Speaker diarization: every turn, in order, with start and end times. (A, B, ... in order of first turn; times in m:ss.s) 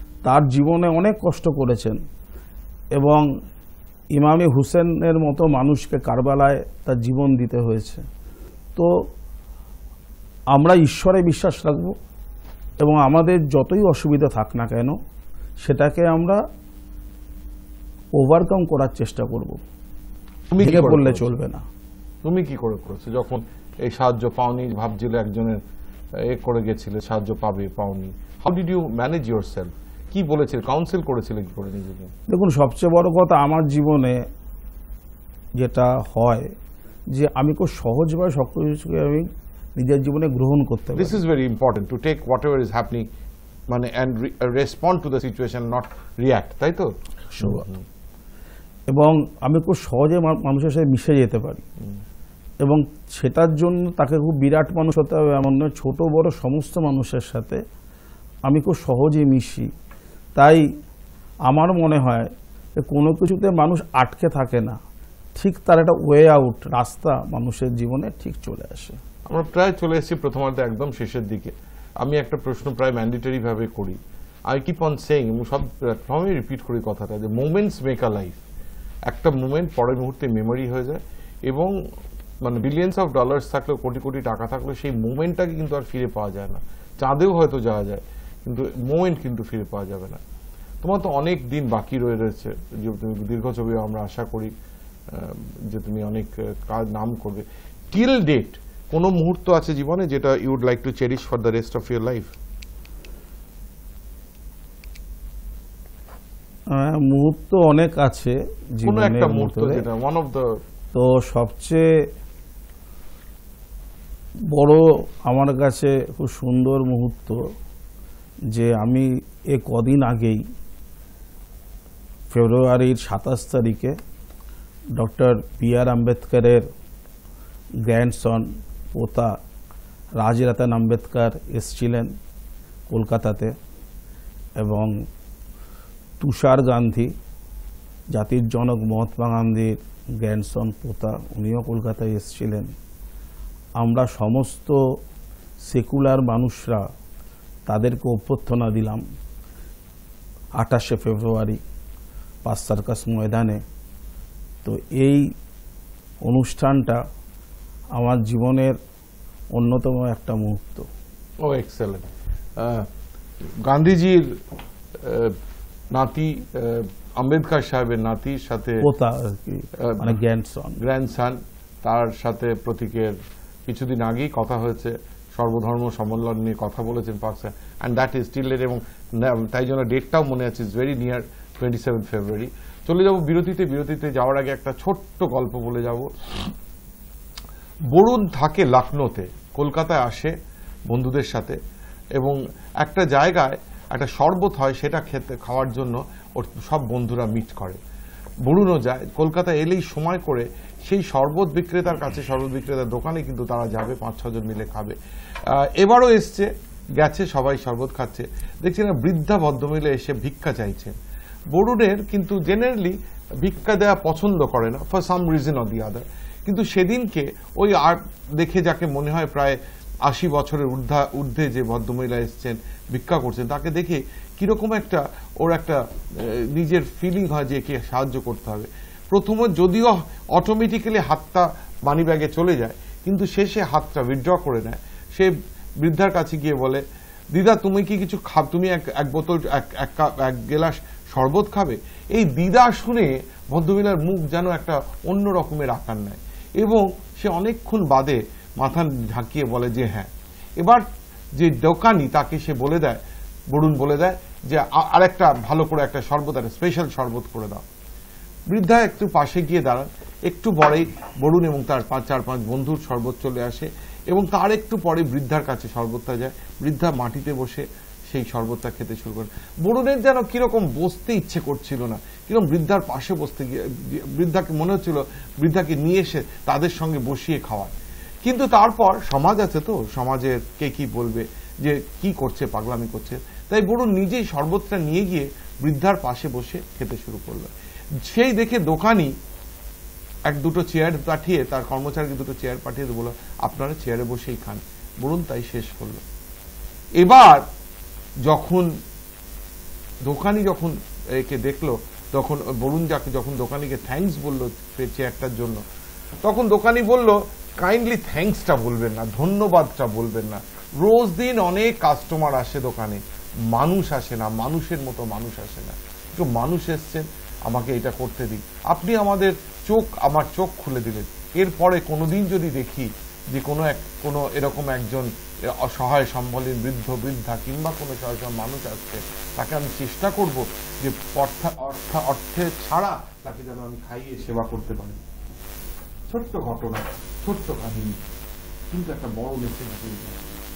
0:00.2-0:02.0 A
0:03.0-0:03.3 A
0:04.2-0:08.0 A
0:10.5-0:12.0 A
0:12.8-0:15.0 A
0:15.6-0:16.4 A
0:18.2-0:19.6 A
0:20.5-0:21.4 B
0:20.6-0:21.6 A
0:22.2-0:25.6 B
0:26.2-0:32.1 B
0:32.3-0:34.2 A
0:35.6-0:36.5 A
0:37.1-0:41.2 A
0:41.0-0:43.1 B
0:43.7-0:47.8 B
0:47.3-0:47.7 A
0:48.9-0:51.6 A
0:52.6-0:57.6 A
0:58.5-0:59.7 A
1:00.4-1:00.6 A
1:01.5-1:02.3 A
1:02.8-1:04.8 A
1:05.4-1:09.0 A
1:09.3-1:18.4 B
1:19.1-1:21.7 B
1:22.4-1:30.2 B
1:30.8-1:34.5 B
1:35.1-1:42.3 B
1:46.7-1:49.8 A
1:48.8-1:50.5 B
1:50.9-1:51.8 A
1:54.5-1:57.4 A
1:58.5-2:00.4 A
2:02.3-2:04.0 A
2:05.0-2:06.7 A
2:07.9-2:09.3 A
2:10.2-2:12.1 A
2:12.9-2:13.5 A
2:14.6-2:14.9 A
2:16.2-2:17.1 A
2:18.1-2:22.7 A
2:23.8-2:24.8 A
2:25.7-2:26.8 A
2:27.7-2:29.0 A
2:30.6-2:31.6 A
2:32.4-2:33.6 A
2:34.6-2:35.3 A
2:36.2-2:37.0 A
2:38.0-2:38.8 A
2:39.6-2:40.9 A
2:41.4-2:42.9 B
2:43.6-2:44.3 B
2:45.0-2:45.4 B
2:45.9-2:48.8 B
2:48.8-2:50.8 A
2:49.8-2:50.2 B
2:50.8-3:06.5 B
3:07.9-3:10.3 B
3:10.9-3:11.6 B
3:12.2-3:17.8 B
3:18.4-3:25.0 B
3:25.5-3:30.9 B
3:31.5-4:10.8 B
4:11.4-4:17.6 B
4:18.5-4:49.1 B
4:50.3-4:56.0 B
4:57.0-4:57.4 B
4:58.2-4:58.8 B
5:00.0-5:05.6 B
5:06.2-5:35.0 B
5:36.1-5:37.9 B
5:38.7-5:40.2 B